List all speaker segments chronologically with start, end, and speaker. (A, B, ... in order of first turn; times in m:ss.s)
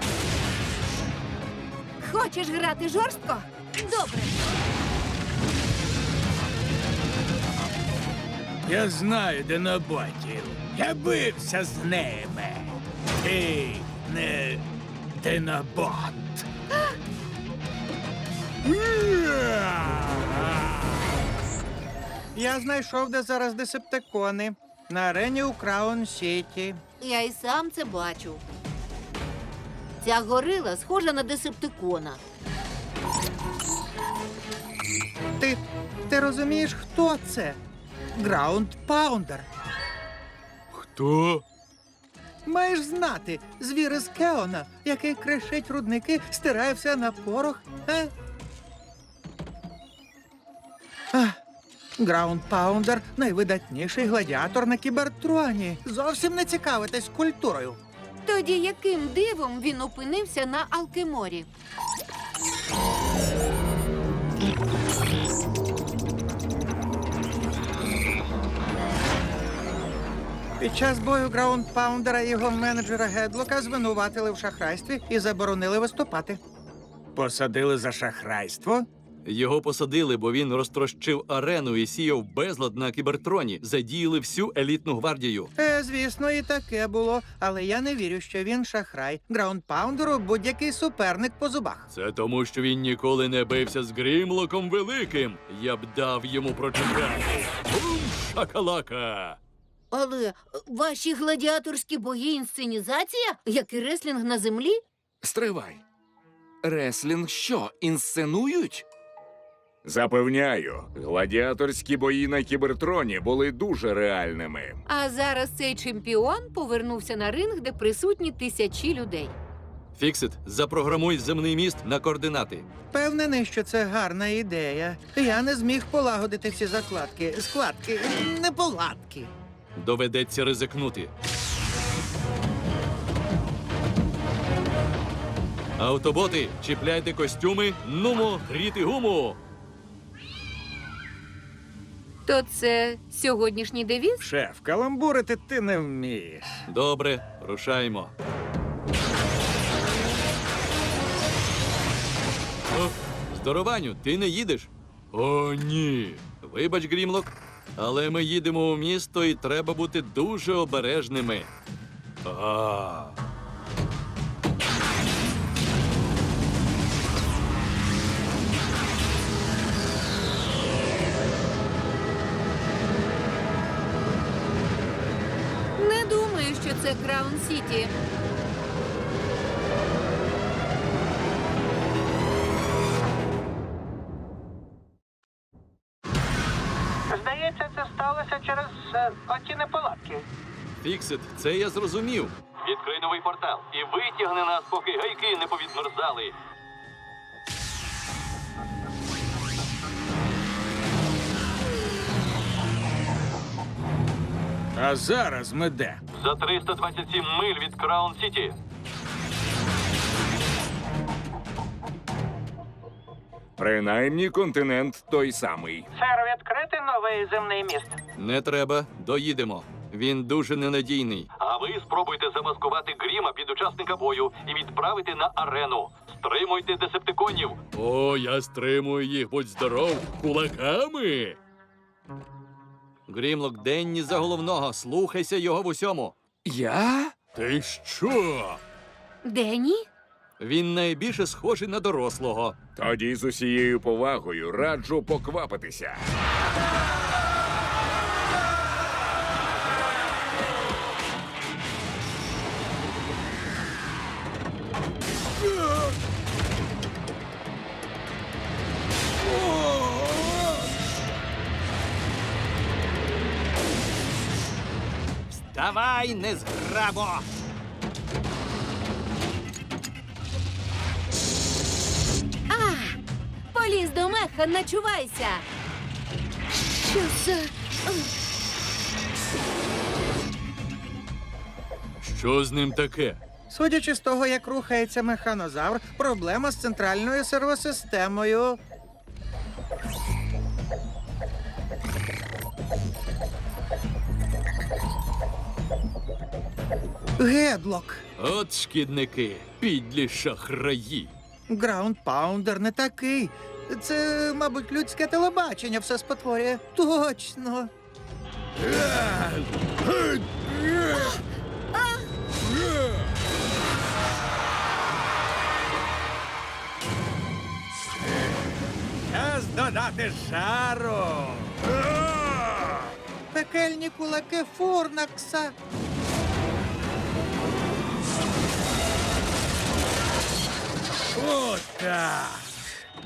0:02.0-0:04.4 A
0:08.7-0:14.6 B
0:15.2-0:16.5 B
0:18.7-0:20.8 B
0:22.3-0:26.8 C
0:27.0-0:28.4 A
0:30.0-0:32.2 A
0:35.4-0:37.6 C
0:38.2-0:39.5 C
0:40.7-0:41.4 D
0:42.5-0:48.1 C
0:51.1-0:51.4 C
0:52.0-0:57.8 C
0:58.2-1:01.5 A
1:10.6-1:16.4 C
1:17.2-1:18.9 B
1:19.2-1:25.5 D
1:25.6-1:31.9 C
1:31.9-1:39.4 D
1:39.9-1:44.8 A
1:45.2-1:45.8 E
1:46.6-1:48.8 E
1:49.8-1:54.8 E
1:54.9-1:59.4 A
2:00.0-2:02.7 D
2:02.9-2:09.3 C
2:09.8-2:11.1 D
2:15.8-2:19.4 D
2:22.3-2:24.2 A
2:24.2-2:26.7 B
2:26.7-2:28.1 D
2:32.7-2:41.5 D
2:42.2-2:43.2 D
2:55.8-2:57.9 A
3:07.1-3:10.2 F
3:10.8-3:16.4 D
3:24.8-3:26.0 B
3:26.1-3:28.6 D
3:33.6-3:35.9 E
3:36.0-3:38.0 F
3:38.2-3:51.4 D
3:53.1-3:56.2 D
3:56.4-3:57.2 E
3:57.4-3:58.6 D
3:59.2-3:59.9 A
4:00.4-4:02.6 D
4:02.8-4:06.0 E
4:19.5-4:20.1 D
4:25.3-4:27.2 D
4:32.5-4:33.0 A
4:33.5-4:35.4 A
4:36.9-4:38.1 A
4:42.0-4:43.2 D
4:43.5-4:48.6 C
4:57.2-4:58.0 C
4:58.2-5:01.1 D
5:01.5-5:07.7 C
5:08.8-5:11.0 B
5:11.8-5:12.0 A
5:19.1-5:22.9 B
5:23.3-5:25.5 C
5:31.1-5:32.5 B